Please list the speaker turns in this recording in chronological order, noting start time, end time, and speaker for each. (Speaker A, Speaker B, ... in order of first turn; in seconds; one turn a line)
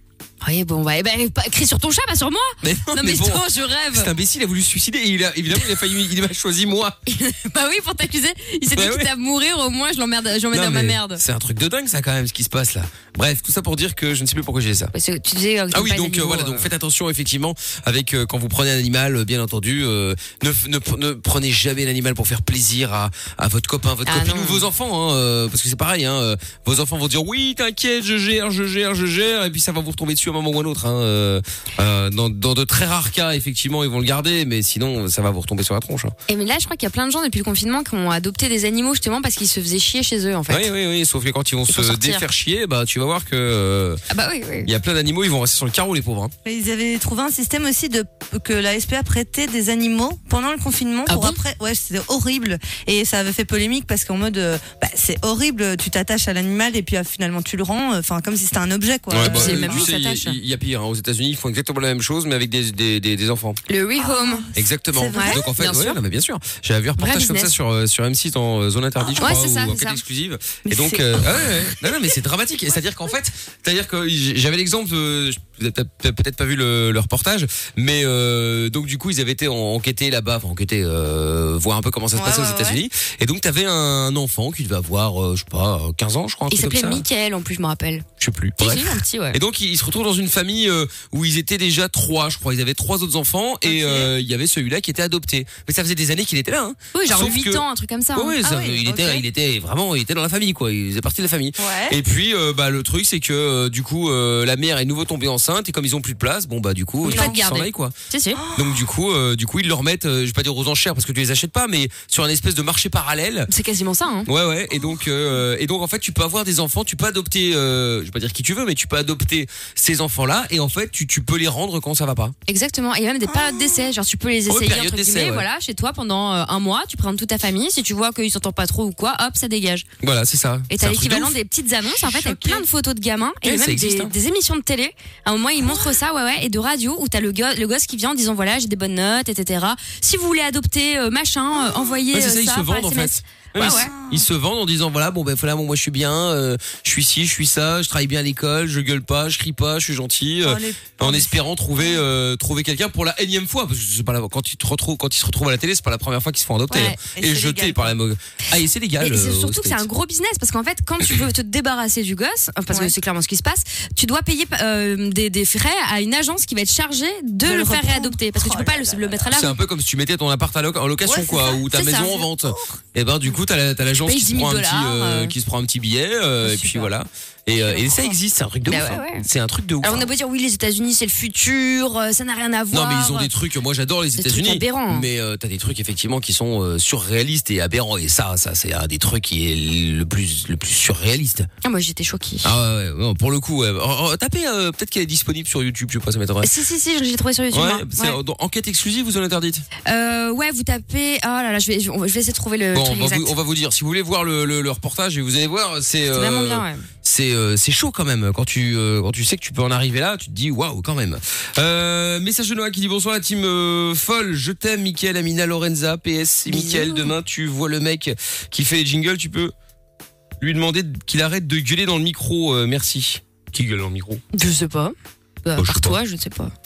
Speaker A: 0.4-4.1
Speaker B: 2.6-7.0
Speaker A: 7.1-11.2
Speaker B: 8.8-9.1
Speaker B: 10.5-14.9
Speaker A: 14.9-16.7
Speaker B: 15.7-36.1
Speaker A: 24.1-24.7
Speaker A: 36.3-40.7
Speaker B: 40.5-44.0
Speaker A: 41.7-42.2
Speaker A: 44.1-44.7
Speaker B: 44.6-46.3
Speaker C: 46.5-59.9
Speaker A: 51.1-51.4
Speaker B: 59.1-63.6
Speaker A: 59.2-60.4
Speaker A: 63.7-64.5
Speaker C: 64.0-65.5
Speaker B: 64.5-87.1
Speaker A: 65.1-66.0
Speaker A: 67.0-67.5
Speaker A: 69.2-70.0
Speaker C: 70.7-71.5
Speaker C: 82.2-82.8
Speaker A: 86.5-88.1
Speaker B: 88.2-108.0
Speaker A: 88.6-89.4
Speaker C: 93.7-94.1
Speaker A: 96.9-98.4
Speaker C: 98.4-99.2
Speaker C: 101.6-102.0
Speaker A: 107.0-108.4
Speaker C: 107.1-107.4
Speaker C: 108.3-108.8
Speaker B: 108.5-113.5
Speaker A: 113.5-114.3
Speaker B: 114.3-122.3
Speaker A: 122.5-129.9
Speaker C: 123.3-123.8
Speaker B: 124.5-125.5
Speaker B: 130.0-131.4
Speaker A: 130.7-143.9
Speaker C: 132.2-132.6
Speaker B: 133.4-134.2
Speaker B: 142.1-159.9
Speaker C: 143.6-144.2
Speaker C: 150.4-152.0
Speaker A: 156.7-157.0
Speaker C: 157.1-157.9
Speaker A: 159.0-169.6
Speaker C: 167.4-169.3
Speaker B: 169.3-180.1
Speaker C: 171.1-172.8
Speaker A: 171.3-172.2
Speaker A: 174.0-175.3
Speaker A: 176.4-176.9
Speaker A: 178.7-179.3
Speaker A: 179.8-183.3
Speaker B: 182.7-191.5
Speaker A: 184.2-185.1
Speaker A: 191.6-192.5
Speaker B: 192.4-196.5
Speaker A: 196.4-198.2
Speaker B: 197.5-199.7
Speaker A: 199.9-203.3
Speaker B: 202.7-219.5
Speaker A: 206.1-206.9
Speaker A: 216.5-217.1
Speaker B: 220.4-224.2
Speaker A: 224.3-226.5
Speaker B: 225.6-226.0